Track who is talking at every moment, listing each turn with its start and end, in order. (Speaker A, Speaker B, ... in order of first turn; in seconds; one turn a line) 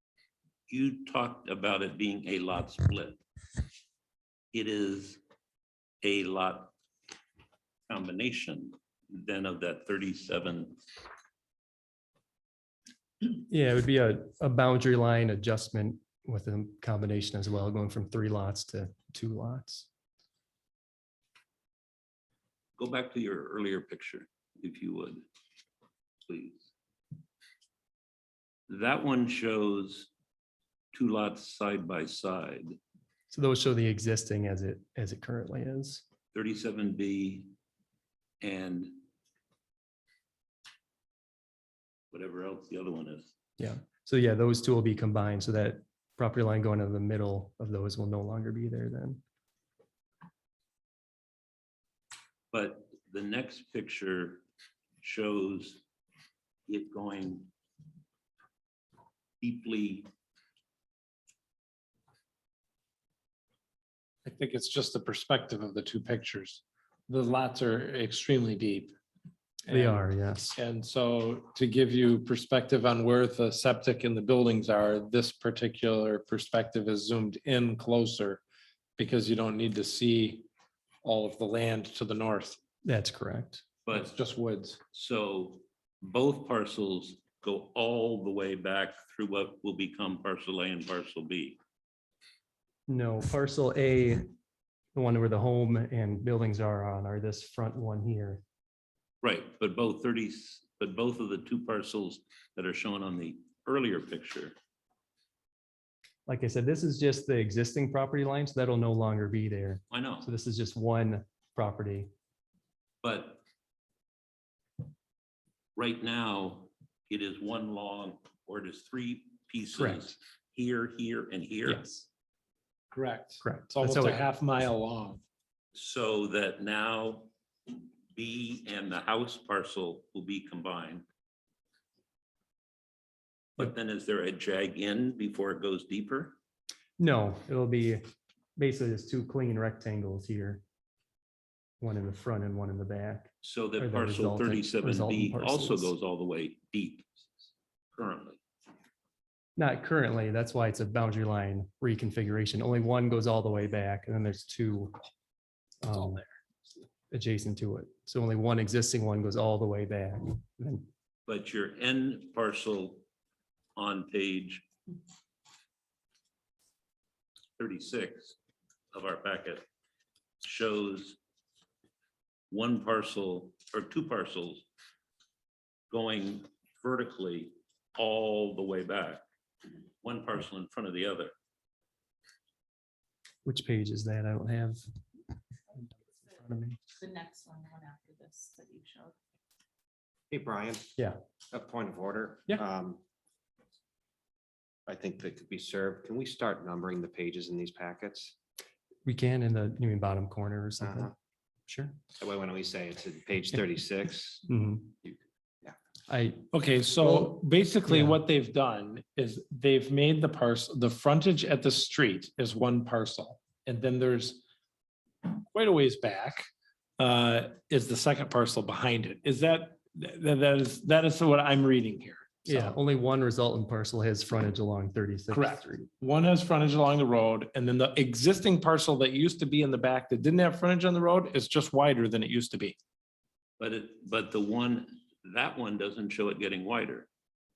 Speaker A: 0.7-3.2
Speaker A: 4.5-5.2
Speaker A: 6.0-6.7
Speaker A: 7.9-10.8
Speaker B: 13.3-19.9
Speaker A: 22.8-25.2
Speaker A: 26.2-26.7
Speaker A: 28.7-30.1
Speaker A: 30.9-32.8
Speaker B: 33.3-36.0
Speaker A: 36.3-37.5
Speaker A: 38.4-39.0
Speaker A: 42.1-43.3
Speaker B: 43.6-49.2
Speaker A: 52.5-54.5
Speaker A: 55.0-55.8
Speaker A: 56.7-57.5
Speaker A: 59.4-60.1
Speaker C: 64.2-68.9
Speaker C: 69.7-70.0
Speaker B: 69.7-70.6
Speaker C: 70.6-78.4
Speaker C: 79.0-80.5
Speaker C: 81.0-82.6
Speaker B: 82.8-83.7
Speaker A: 83.9-84.1
Speaker C: 83.9-84.8
Speaker A: 84.9-91.6
Speaker B: 92.9-94.3
Speaker B: 95.0-98.4
Speaker A: 99.2-104.5
Speaker B: 106.3-112.1
Speaker A: 109.9-110.3
Speaker A: 113.0-113.4
Speaker A: 115.8-121.9
Speaker B: 119.8-120.1
Speaker B: 121.7-122.1
Speaker C: 122.9-125.2
Speaker B: 123.4-124.2
Speaker A: 125.7-127.3
Speaker A: 128.1-131.1
Speaker A: 133.6-136.4
Speaker B: 137.0-138.0
Speaker B: 138.6-140.6
Speaker B: 141.8-145.9
Speaker A: 143.4-147.1
Speaker A: 147.9-148.4
Speaker B: 149.6-154.9
Speaker B: 155.8-156.2
Speaker B: 157.1-160.9
Speaker A: 161.3-163.0
Speaker A: 163.8-164.7
Speaker A: 167.6-168.4
Speaker A: 168.9-169.7
Speaker A: 170.4-171.2
Speaker A: 172.5-174.7
Speaker A: 175.9-179.2
Speaker A: 180.0-181.3
Speaker B: 183.4-184.8
Speaker B: 186.3-186.8
Speaker D: 187.0-189.2
Speaker E: 190.3-190.9
Speaker E: 191.5-193.0
Speaker E: 194.9-198.3
Speaker B: 199.1-201.1
Speaker E: 200.8-201.1
Speaker B: 201.7-202.0
Speaker E: 202.2-204.5
Speaker B: 204.5-204.9
Speaker E: 205.0-205.8
Speaker B: 206.1-206.5
Speaker C: 206.5-214.4
Speaker B: 207.9-208.2
Speaker C: 215.2-216.5
Speaker C: 217.0-222.8
Speaker B: 222.5-225.9
Speaker C: 225.3-232.8
Speaker A: 233.6-237.1